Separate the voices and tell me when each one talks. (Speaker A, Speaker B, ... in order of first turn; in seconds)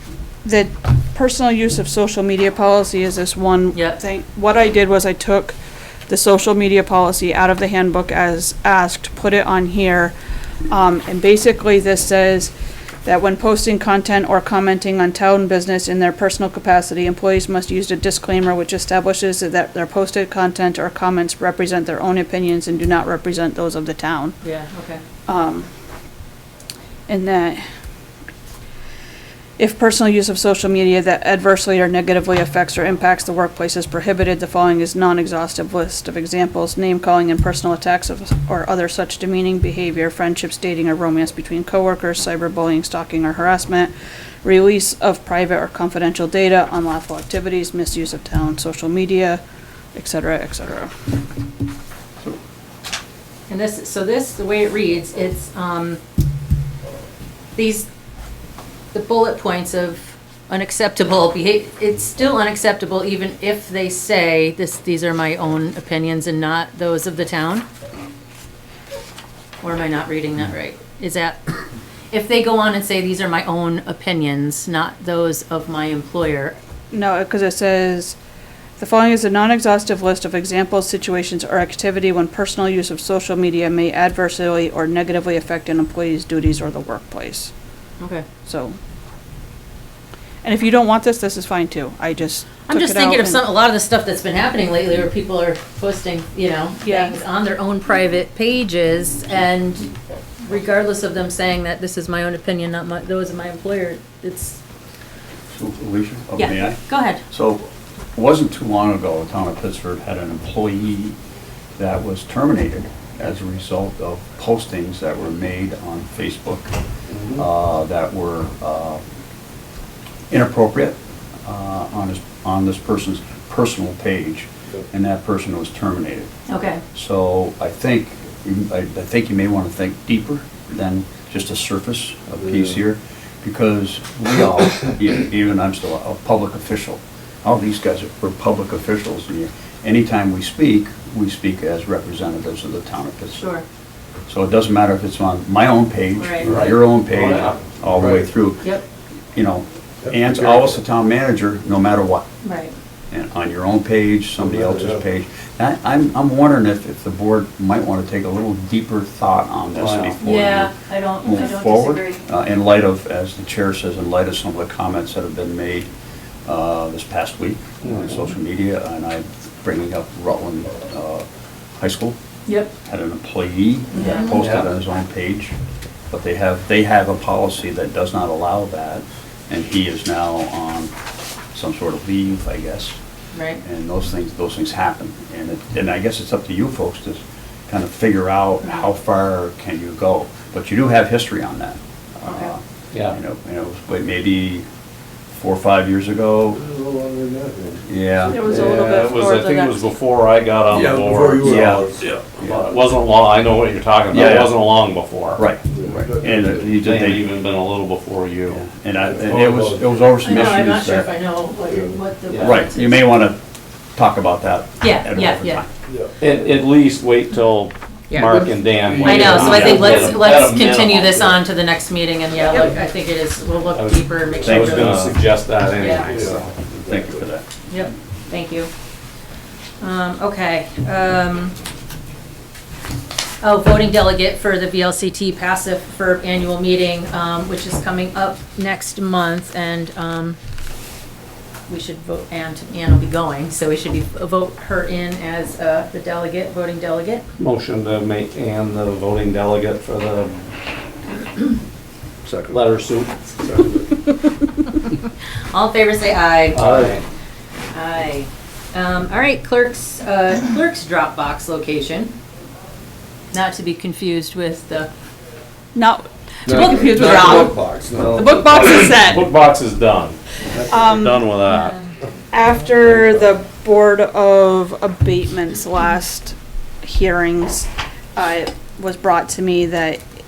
Speaker A: 0.4-5.5, 6.1-10.1, 10.7-12.5, 13.0-24.4, 25.3-25.7, 27.1-27.6, 29.6-43.9, 44.4-49.4, 49.9-50.9, 76.9-78.2, 78.8-87.5, 88.4-88.8, 90.4-93.5, 96.8-97.2, 198.3-199.8, 265.7-267.6, 268.1-269.3, 270.7-271.3, 272.3-280.0
Speaker B: 3.7-4.0, 24.4-25.0, 53.5-56.0, 57.5-57.9, 58.9-67.7, 69.6-71.4, 72.1-76.5, 88.0-88.2, 92.7-99.9, 100.4-104.6, 106.4-107.2, 126.5-126.8, 143.4-143.6, 146.2-146.6, 152.4-152.7, 160.2-162.2, 173.9-174.4, 183.3-183.6, 192.2-192.5, 210.2-213.1, 214.8-215.6, 218.1-218.4, 218.9-225.1, 225.8-226.1, 227.7-228.7, 229.8-231.6, 233.4-240.4, 241.7-247.2, 255.5-256.6, 257.7-262.1, 263.3-264.9, 271.5-271.8
Speaker C: 105.5-107.6, 108.2-111.1, 111.8-116.7, 117.3-119.0, 120.3-126.3, 126.9-143.5, 144.3-148.7, 149.3-152.2, 153.1-165.9, 166.4-171.2, 171.8-172.2, 172.8-175.5, 176.1-180.9, 181.5-183.0, 183.6-194.7, 195.3-196.6, 197.9-198.4, 201.4-202.0, 204.1-204.6, 205.3-207.2, 208.5-211.1, 212.3-213.4, 213.9-215.7, 219.4-219.9, 224.4-225.2, 226.9-227.4
Speaker D: 117.1-117.4, 146.4-147.6, 159.8-160.2, 167.8-168.3, 174.2-174.7, 198.3-201.8, 202.4-205.5, 206.8-208.6, 212.3-212.6, 216.2-221.4, 223.7-226.8, 247.4-250.5, 252.5-253.2, 256.5-257.0, 268.0-271.8
Speaker E: 147.9-148.3, 150.0-150.8, 154.4-155.1, 196.5-198.8, 200.7-202.6, 205.7-206.8, 209.0-210.0, 211.6-212.0, 215.9-216.1, 218.8-220.0, 225.8-227.2, 252.2-252.6, 253.4-254.0, 256.5-257.0, 266.4-268.9, 270.5-271.0, 272.8-273.2